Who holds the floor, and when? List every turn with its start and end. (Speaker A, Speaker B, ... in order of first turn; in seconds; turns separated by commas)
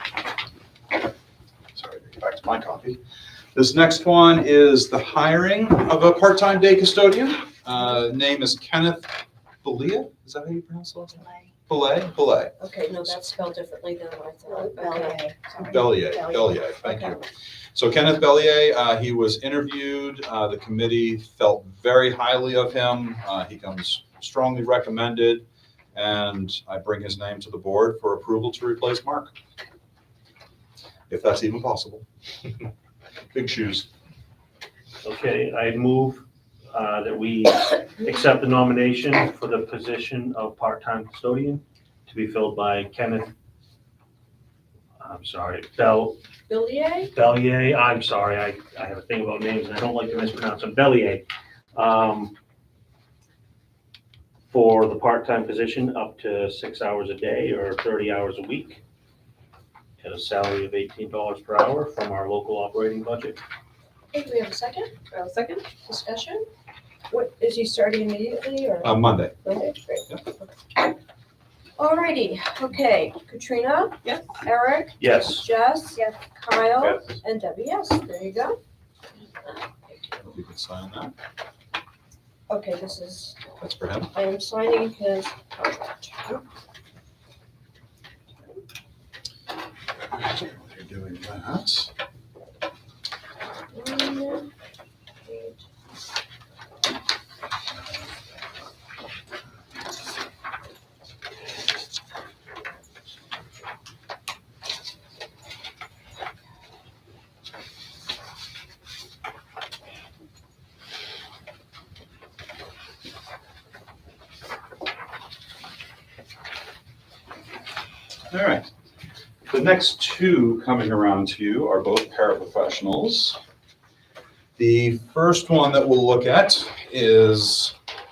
Speaker A: 1.7-3.0, Speaker A: 3.5-9.1, Speaker A: 9.6-12.5, Speaker B: 12.6-15.9, Speaker C: 14.5-16.4, Speaker A: 15.6-17.2, Speaker A: 17.7-29.3, Speaker A: 31.1-32.0, Speaker A: 33.3-33.9, Speaker D: 35.0-43.3, Speaker D: 45.0-46.2, Speaker B: 46.5-47.1, Speaker D: 47.1-52.3, Speaker D: 54.5-58.8, Speaker D: 60.0-63.4, Speaker B: 64.1-64.9, Speaker C: 65.1-65.6, Speaker B: 65.8-66.4, Speaker B: 67.1-70.5, Speaker A: 68.8-69.3, Speaker B: 71.8-78.5, Speaker D: 75.0-75.4, Speaker B: 79.4-80.2, Speaker A: 80.2-81.1, Speaker B: 82.5-83.4, Speaker A: 83.6-84.1, Speaker B: 84.1-86.4, Speaker A: 90.1-91.9, Speaker B: 93.7-94.5, Speaker B: 95.2-95.6, Speaker A: 118.3-118.7, Speaker A: 119.5-123.4, Speaker A: 124.6-127.7